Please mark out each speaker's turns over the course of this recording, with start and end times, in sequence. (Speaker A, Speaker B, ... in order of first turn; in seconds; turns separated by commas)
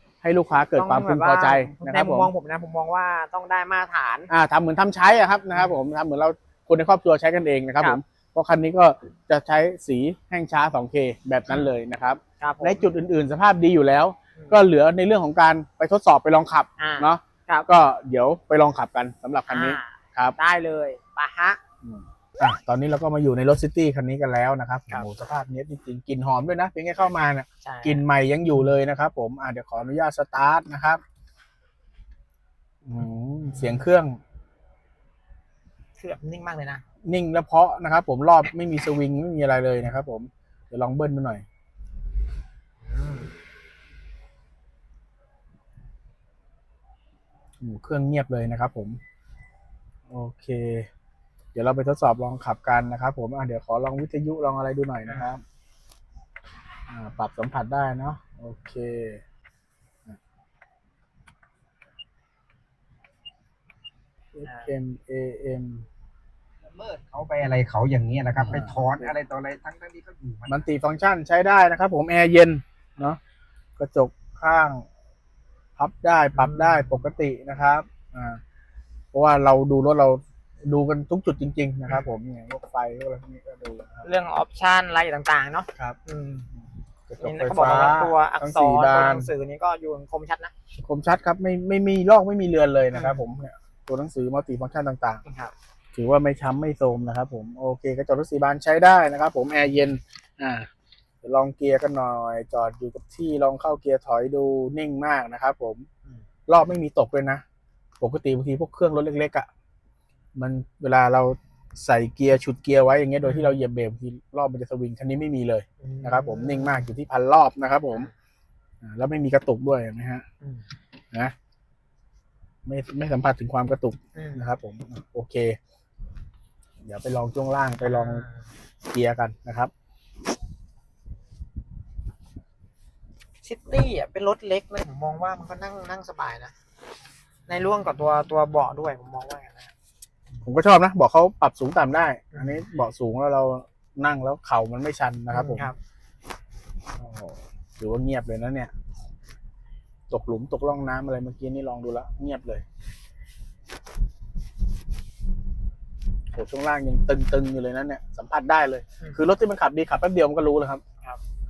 Speaker A: 0.2-2.3, Speaker B: 0.7-4.3, Speaker A: 4.3-20.4, Speaker B: 12.4-12.9, Speaker B: 16.8-17.7, Speaker B: 19.5-21.6, Speaker A: 21.8-31.0, Speaker B: 27.6-28.0, Speaker A: 32.8-34.2, Speaker B: 36.0-36.8, Speaker A: 37.0-41.4, Speaker B: 42.9-43.3, Speaker A: 47.6-49.0, Speaker A: 50.1-50.9, Speaker A: 51.5-55.4, Speaker B: 55.1-55.3, Speaker A: 56.9-59.2, Speaker A: 64.3-65.8, Speaker B: 64.4-64.7, Speaker C: 66.7-70.5, Speaker A: 68.4-69.2, Speaker A: 70.5-73.2, Speaker A: 73.8-74.8, Speaker A: 75.8-78.4, Speaker B: 76.4-76.9, Speaker A: 79.1-84.0, Speaker B: 84.0-86.5, Speaker A: 87.1-89.3, Speaker B: 87.2-90.5, Speaker A: 90.8-95.2, Speaker B: 92.9-93.2, Speaker B: 95.2-95.5, Speaker A: 95.9-100.7, Speaker A: 101.2-105.8, Speaker A: 106.5-107.4, Speaker A: 108.0-109.5, Speaker A: 110.3-118.1, Speaker B: 113.2-113.5, Speaker B: 115.8-116.9, Speaker A: 118.8-120.2, Speaker A: 122.7-125.6, Speaker B: 124.1-124.5, Speaker A: 126.8-128.2, Speaker B: 127.8-128.4, Speaker A: 128.9-129.7, Speaker B: 133.4-136.5, Speaker B: 137.5-139.7, Speaker A: 140.4-145.7, Speaker B: 145.3-145.8, Speaker A: 147.0-148.7, Speaker A: 150.1-152.6, Speaker A: 156.3-160.8